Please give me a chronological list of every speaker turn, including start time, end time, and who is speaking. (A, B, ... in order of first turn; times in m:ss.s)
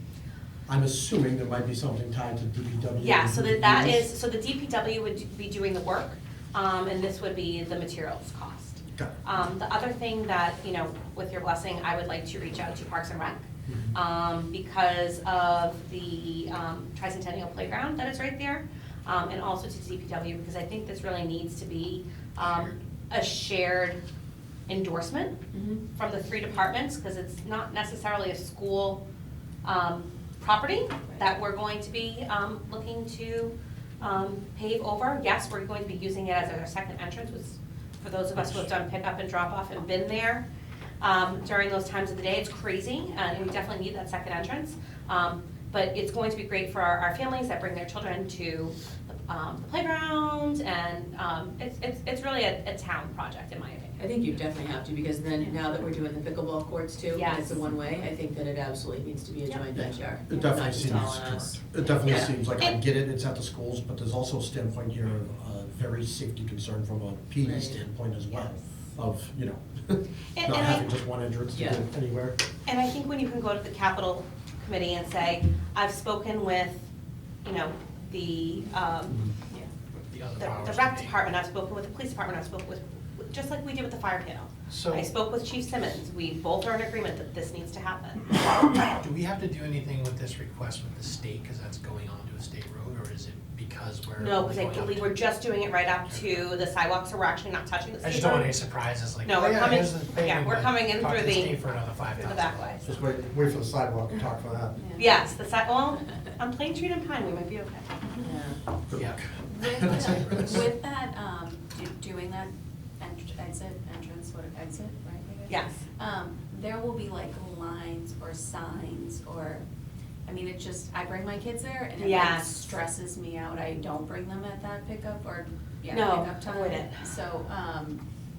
0:00.7-0:04.1 A
0:03.0-0:24.0 B
0:13.7-0:14.0 A
0:22.4-0:22.7 C
0:24.7-0:25.4 B
0:25.9-0:29.0 B
0:29.6-0:40.4 B
0:38.4-0:38.7 C
0:41.0-0:54.0 B
0:54.0-1:02.3 D
0:57.1-0:57.8 B
0:59.7-1:12.4 A
1:02.0-1:02.8 B
1:07.4-1:07.8 D
1:10.3-1:10.9 B
1:11.5-1:11.9 D
1:12.6-1:16.8 B
1:17.4-1:19.2 B
1:20.1-1:21.1 C
1:20.4-1:28.2 B
1:24.7-1:25.2 C
1:29.0-1:35.2 C
1:34.2-1:38.5 B
1:36.1-1:36.5 C
1:38.0-1:42.9 C
1:39.2-1:42.8 B
1:42.8-1:44.8 A
1:44.8-1:45.1 E
1:45.0-1:47.9 B
1:48.2-1:48.6 D
1:48.9-1:49.2 A
1:49.0-1:50.7 C
1:49.5-1:59.6 E
1:49.8-1:50.4 A
1:55.5-1:55.8 B
2:00.2-2:08.0 E
2:02.0-2:02.6 B
2:05.9-2:07.0 B